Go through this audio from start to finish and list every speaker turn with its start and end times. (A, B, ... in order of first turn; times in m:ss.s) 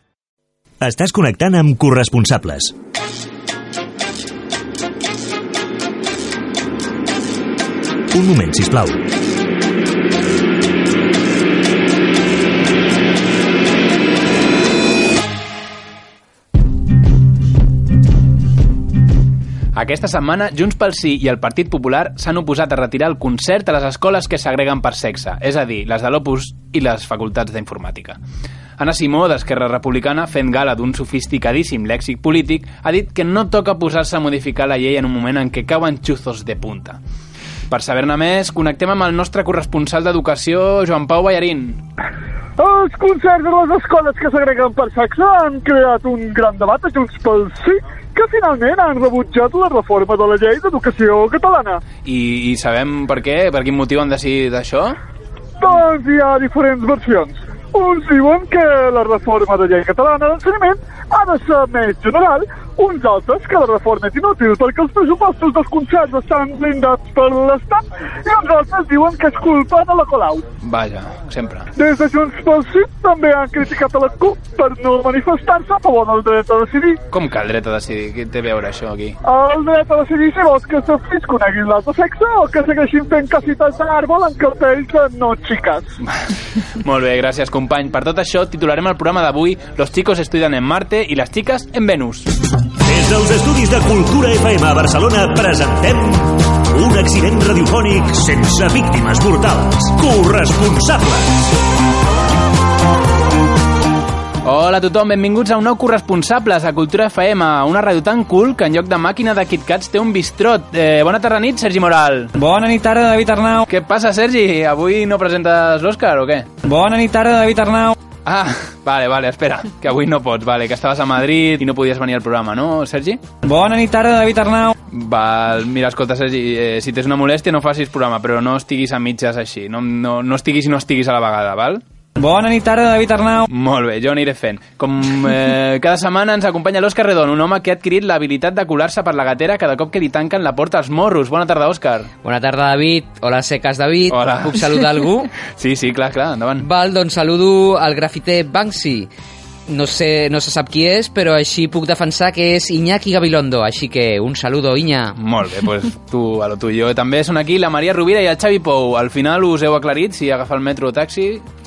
0:00.8-0:02.7 A
0:08.1-0:09.0 A
0:19.7-0:28.2 B
0:28.8-0:37.0 B
0:37.7-0:41.8 B
0:42.6-0:51.8 C
0:52.0-0:55.0 B
0:55.6-1:10.4 C
1:10.6-1:11.7 B
1:11.8-1:17.0 C
1:17.1-1:19.2 B
1:19.2-1:25.9 C
1:26.0-1:32.3 B
1:32.8-1:41.5 A
1:44.4-1:52.3 B
1:52.3-1:53.6 D
1:53.7-1:56.5 B
1:56.6-1:58.0 D
1:58.2-2:03.2 B
2:03.4-2:04.8 D
2:04.9-2:11.8 B
2:12.2-2:13.5 D
2:13.5-2:22.1 B
2:22.2-2:25.3 E
2:24.1-2:26.7 B
2:26.6-2:29.1 E
2:29.7-2:35.1 E
2:35.2-2:41.4 B